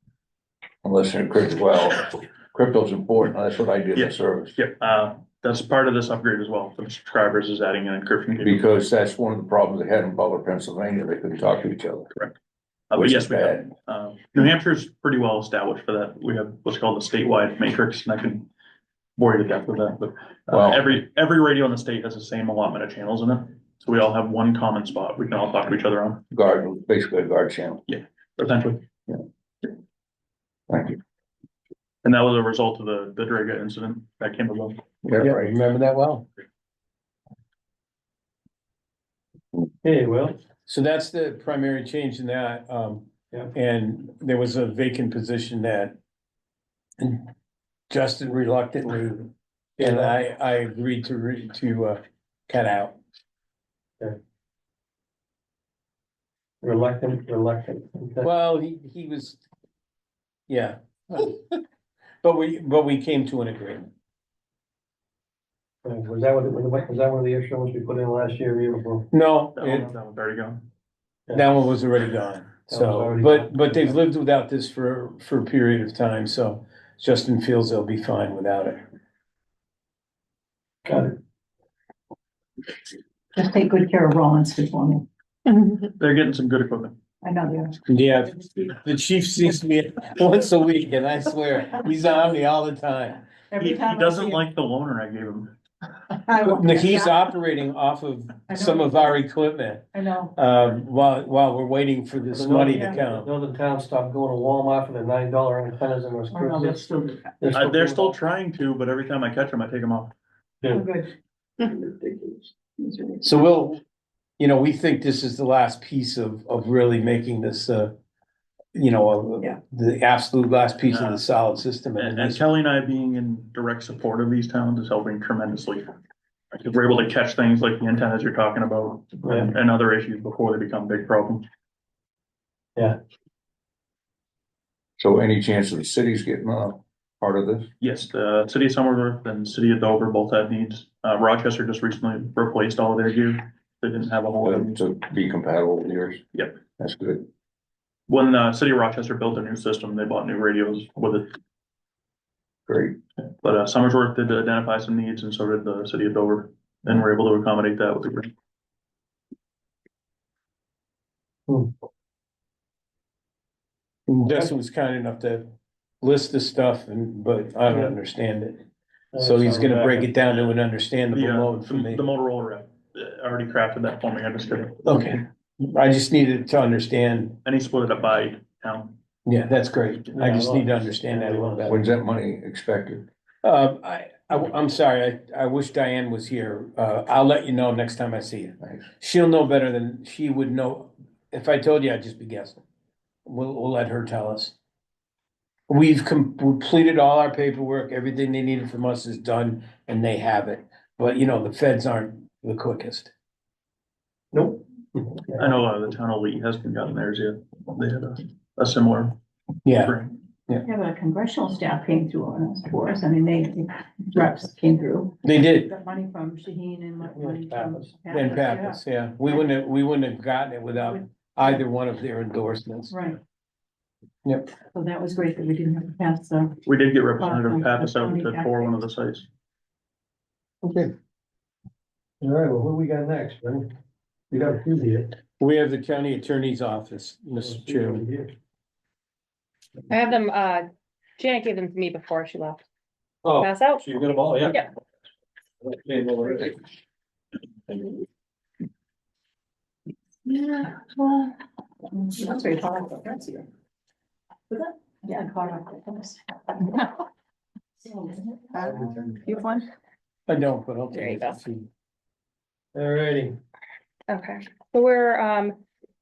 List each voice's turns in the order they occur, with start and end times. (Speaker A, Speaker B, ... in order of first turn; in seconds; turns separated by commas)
Speaker A: 0.8-4.5, Speaker B: 3.9-8.7, Speaker A: 8.4-12.1, Speaker B: 12.9-18.5, Speaker A: 12.9-13.7, Speaker B: 19.2-26.2, Speaker A: 20.5-20.9, Speaker A: 26.3-27.8, Speaker B: 27.9-28.9, Speaker A: 30.7-31.0, Speaker B: 32.0-34.8, Speaker A: 35.0-35.5, Speaker C: 35.2-36.3, Speaker D: 39.8-40.4, Speaker C: 40.6-46.0, Speaker C: 47.0-47.3, Speaker C: 47.9-53.0, Speaker D: 49.8-50.1, Speaker D: 56.6-58.3, Speaker C: 58.2-59.4, Speaker C: 60.5-61.6, Speaker C: 62.2-63.9, Speaker D: 65.8-69.1, Speaker C: 69.1-69.9, Speaker B: 69.5-70.7, Speaker C: 71.3-78.8, Speaker D: 72.7-74.0, Speaker D: 80.8-81.1, Speaker E: 83.3-85.0, Speaker B: 85.8-87.0, Speaker E: 87.2-87.8, Speaker C: 87.9-93.2, Speaker E: 93.5-94.4, Speaker B: 93.6-95.5, Speaker E: 96.2-97.1, Speaker C: 96.4-103.3, Speaker E: 98.5-99.0, Speaker E: 99.9-100.3, Speaker D: 102.3-108.1, Speaker E: 102.7-103.0, Speaker E: 106.3-107.4, Speaker B: 107.5-110.1, Speaker E: 110.7-113.2, Speaker C: 113.2-113.8, Speaker C: 114.4-118.0, Speaker C: 118.7-122.4, Speaker B: 120.8-121.2, Speaker B: 122.0-125.9, Speaker B: 126.5-131.4, Speaker D: 129.2-129.5, Speaker A: 135.0-137.7, Speaker B: 137.8-144.8, Speaker A: 144.4-146.2, Speaker A: 146.8-147.3, Speaker B: 148.1-151.3, Speaker A: 152.7-153.0, Speaker B: 153.4-158.3, Speaker C: 164.1-165.5, Speaker C: 166.0-168.7, Speaker D: 167.7-167.9, Speaker D: 169.1-170.1, Speaker C: 169.2-172.0, Speaker B: 171.1-175.2, Speaker C: 174.8-177.4, Speaker B: 177.4-178.9, Speaker C: 179.2-181.8, Speaker D: 180.1-181.7, Speaker A: 181.7-183.1, Speaker C: 183.4-192.6, Speaker C: 193.2-194.5, Speaker C: 195.7-203.1, Speaker D: 204.3-205.5, Speaker B: 205.3-209.2, Speaker C: 209.6-209.9, Speaker B: 209.7-210.1, Speaker E: 210.6-218.8, Speaker C: 215.2-215.7, Speaker D: 217.1-218.0, Speaker C: 218.1-222.9, Speaker E: 222.9-223.2, Speaker C: 224.2-224.5, Speaker E: 224.7-226.6, Speaker B: 226.7-229.2, Speaker E: 227.2-228.7, Speaker C: 230.6-230.9, Speaker D: 232.2-233.7, Speaker D: 234.3-235.2, Speaker C: 235.4-238.0, Speaker D: 237.4-238.3, Speaker F: 239.9-240.7, Speaker F: 241.2-242.6, Speaker F: 243.3-243.8, Speaker E: 250.3-251.2, Speaker E: 251.9-253.4, Speaker E: 254.5-257.0, Speaker E: 257.9-259.7, Speaker D: 258.6-259.1, Speaker C: 260.3-261.7, Speaker F: 260.9-261.4, Speaker D: 262.7-263.4, Speaker F: 264.1-265.6